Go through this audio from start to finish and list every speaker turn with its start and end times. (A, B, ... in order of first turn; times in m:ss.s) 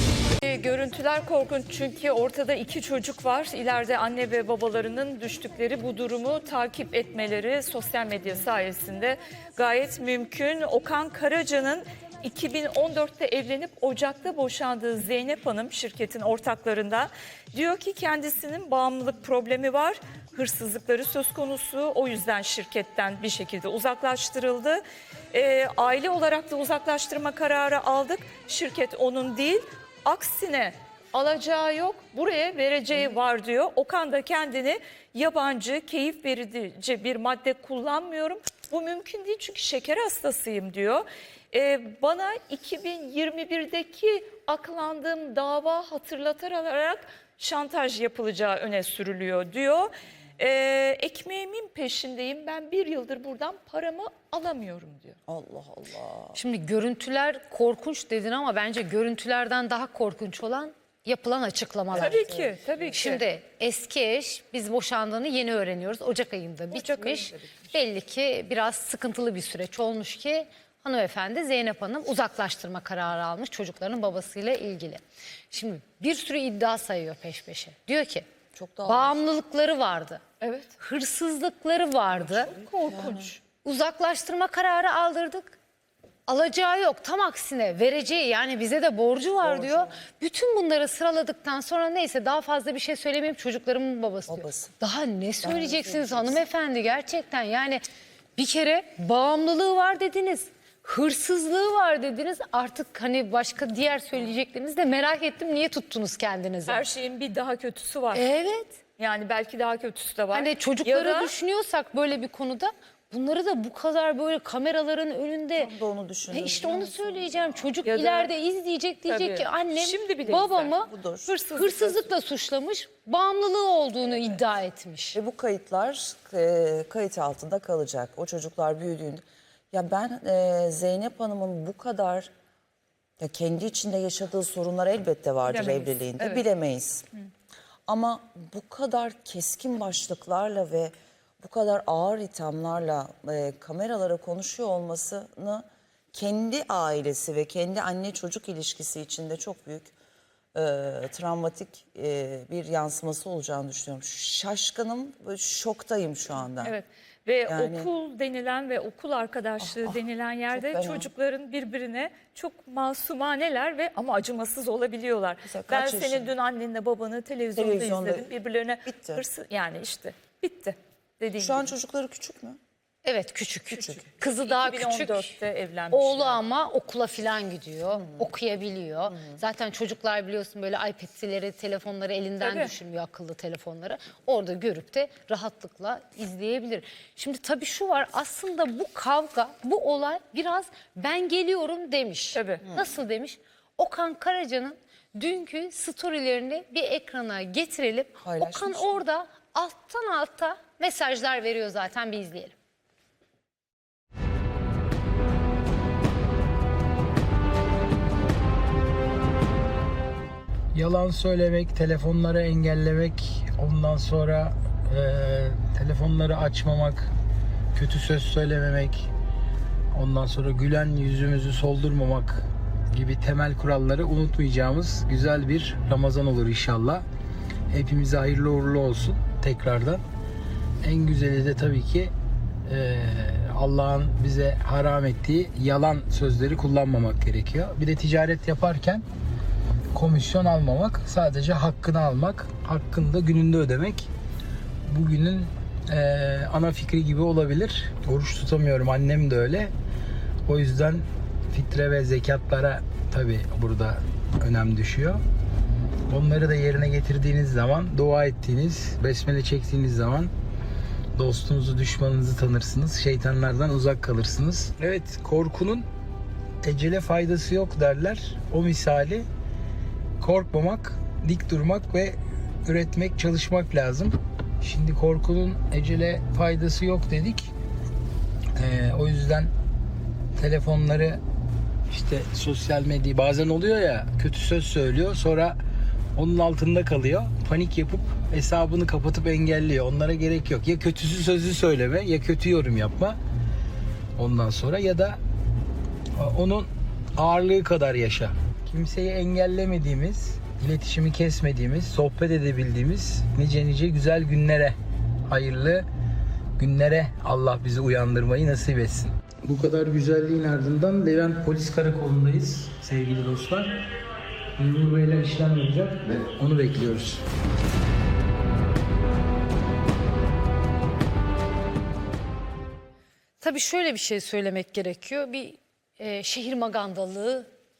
0:00.4-0:55.2 A
0:55.3-0:56.4 B
0:56.3-1:02.2 C
1:01.9-1:02.8 B
1:01.9-1:03.2 A
1:02.9-1:18.2 C
1:06.7-1:07.4 A
1:18.5-1:19.2 B
1:18.8-1:20.2 C
1:20.4-1:20.7 A
1:20.8-1:22.5 C
1:22.3-1:23.4 A
1:22.8-1:23.3 B
1:23.6-1:25.6 C
1:26.3-1:37.8 C
1:29.4-1:30.0 B
1:34.3-1:34.8 B
1:35.4-1:36.4 B
1:38.4-1:46.8 C
1:46.7-1:48.2 A
1:48.1-1:48.8 C
1:49.0-1:51.3 A
1:50.3-1:55.7 C
1:55.6-1:57.7 B
1:56.3-2:05.2 C
1:57.8-1:58.3 A
1:59.1-2:00.7 A
2:00.8-2:01.4 B
2:01.3-2:01.9 A
2:05.1-2:12.3 B
2:13.2-2:17.0 B
2:15.4-2:16.4 A
2:17.9-2:29.9 B
2:30.5-2:36.8 B
2:36.6-2:51.7 A
2:37.5-2:37.9 B
2:39.6-2:40.0 B
2:40.5-2:41.1 B
2:45.4-2:46.3 B
2:47.6-2:48.3 B
2:48.8-2:49.2 B
2:51.4-2:52.6 B
2:53.0-2:55.4 C
2:53.7-2:54.0 B
2:53.7-2:56.4 A
2:55.9-3:22.5 C
2:57.9-2:58.3 B
2:59.1-2:59.4 B
3:02.4-3:02.7 A
3:12.3-3:12.6 A
3:18.2-3:19.0 B
3:30.7-3:37.1 D
3:37.7-3:39.1 D
3:39.9-3:47.0 D
3:47.7-3:50.0 D
3:50.8-3:52.1 D
3:52.7-3:59.0 D
3:59.9-4:04.1 D
4:04.9-4:09.7 D
4:10.5-4:15.2 D
4:16.1-4:20.3 D
4:21.2-4:25.8 D
4:26.6-4:29.2 D
4:30.2-4:37.5 D
4:38.5-4:39.5 D
4:40.4-4:41.2 D
4:41.9-4:45.6 D
4:46.2-4:53.2 D
4:54.2-4:55.2 D
4:56.2-5:04.7 D
5:05.3-5:05.8 D
5:06.6-5:13.7 D
5:14.6-5:17.2 D
5:23.4-5:27.5 C